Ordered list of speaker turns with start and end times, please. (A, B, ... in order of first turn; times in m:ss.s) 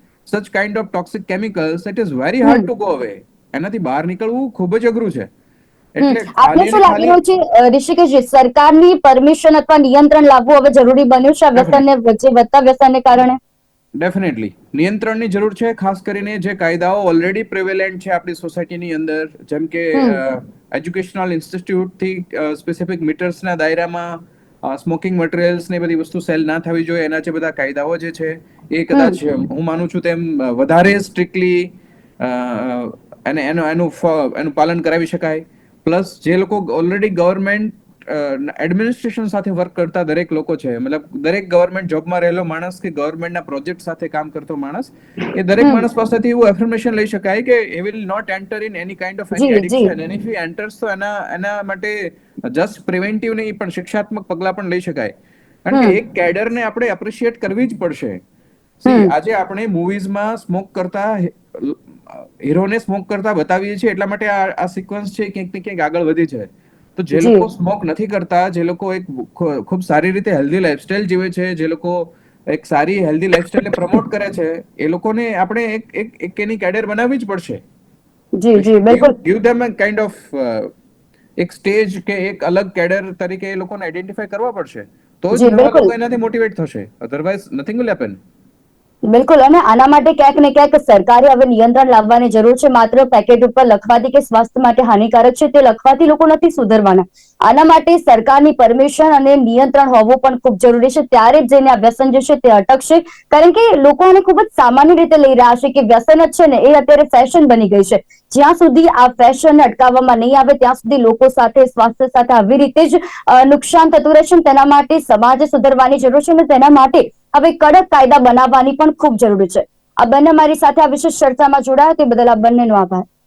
0:00.3-0:05.3 A
0:05.9-0:07.2 A
0:06.0-0:13.4 B
0:11.5-0:11.8 A
0:14.0-0:55.1 A
0:45.6-0:45.8 B
0:49.3-0:49.9 B
0:55.6-0:58.2 A
0:58.8-1:17.6 A
0:58.9-0:59.1 B
1:07.2-1:07.4 B
1:18.4-1:19.1 B
1:18.6-1:20.7 A
1:21.4-1:28.2 A
1:25.3-1:25.9 B
1:29.1-2:03.0 B